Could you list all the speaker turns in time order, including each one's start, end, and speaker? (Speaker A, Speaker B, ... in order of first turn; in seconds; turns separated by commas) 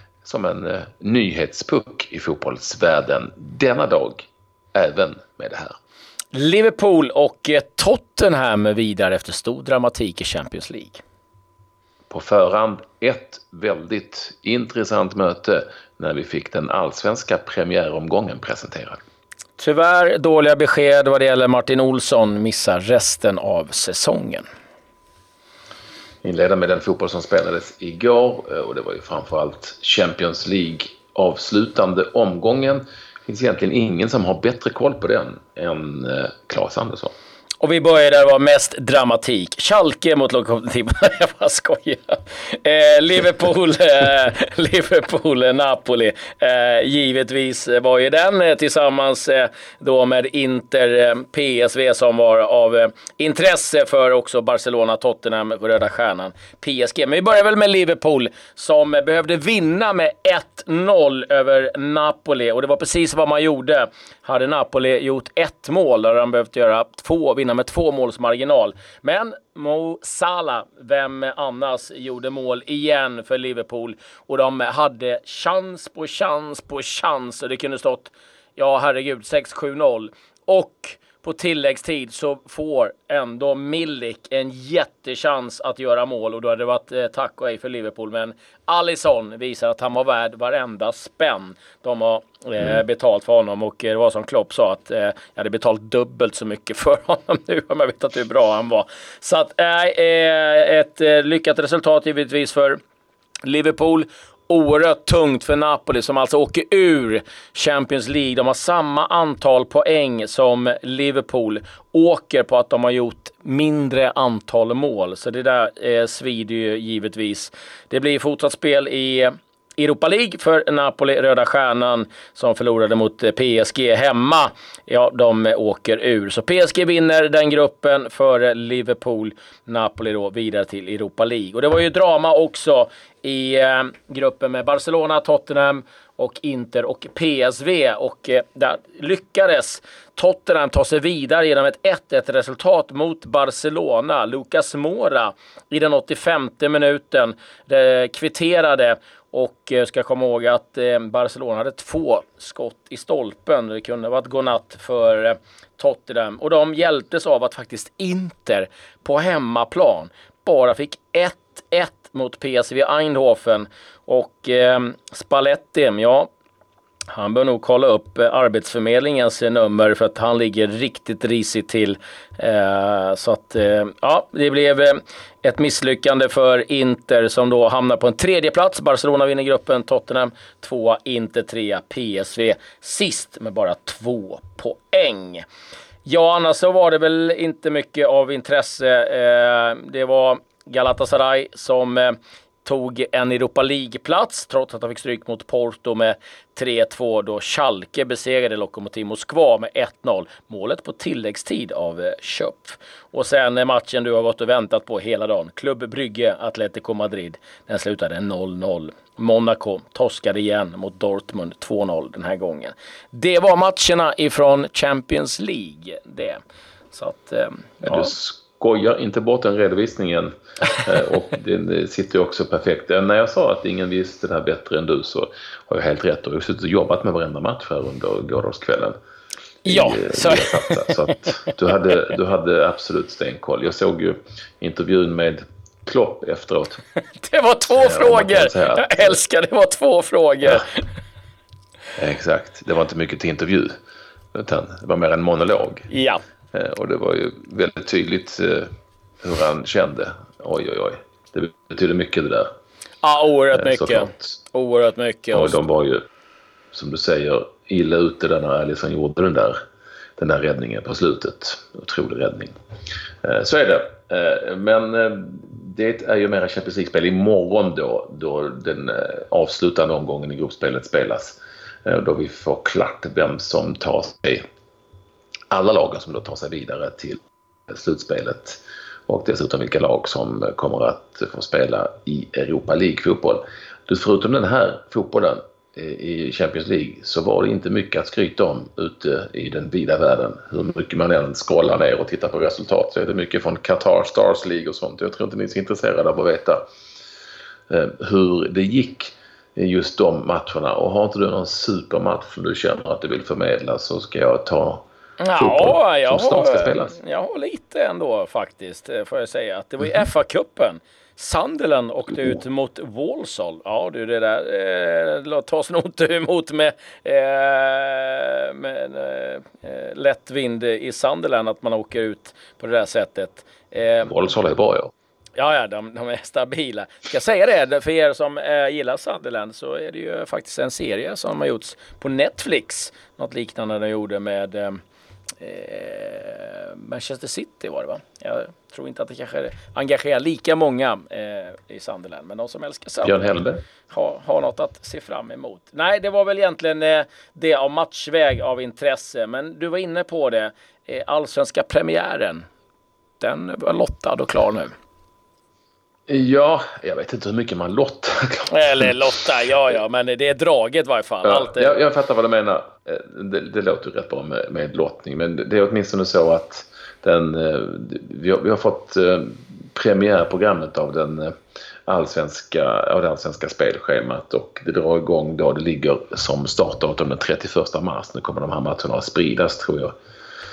Speaker A: 0.2-5.8, Speaker B: 6.3-11.0, Speaker A: 12.1-19.0, Speaker B: 19.6-24.4, Speaker A: 26.2-37.1, Speaker B: 37.6-102.8, Speaker B: 103.4-166.3, Speaker B: 167.1-185.4, Speaker B: 186.0-216.4, Speaker B: 216.9-218.1, Speaker A: 217.8-228.9, Speaker B: 229.6-231.4, Speaker A: 229.7-236.8, Speaker B: 237.2-240.8, Speaker A: 237.8-239.2, Speaker A: 242.0-243.8, Speaker A: 244.3-245.9, Speaker B: 245.9-246.2, Speaker A: 246.5-248.7, Speaker A: 249.2-252.5, Speaker B: 253.0-255.6, Speaker A: 253.5-254.2, Speaker A: 255.3-256.0, Speaker A: 256.7-259.6, Speaker A: 260.2-262.5, Speaker A: 263.2-274.4, Speaker A: 275.5-296.6, Speaker A: 297.7-304.8, Speaker B: 305.2-324.2, Speaker A: 305.4-306.9, Speaker A: 324.0-324.9, Speaker B: 325.4-334.8, Speaker B: 335.4-352.4, Speaker A: 343.0-343.6, Speaker B: 353.2-354.7, Speaker A: 356.1-359.0, Speaker B: 358.5-361.8, Speaker A: 361.2-371.3, Speaker A: 371.9-379.9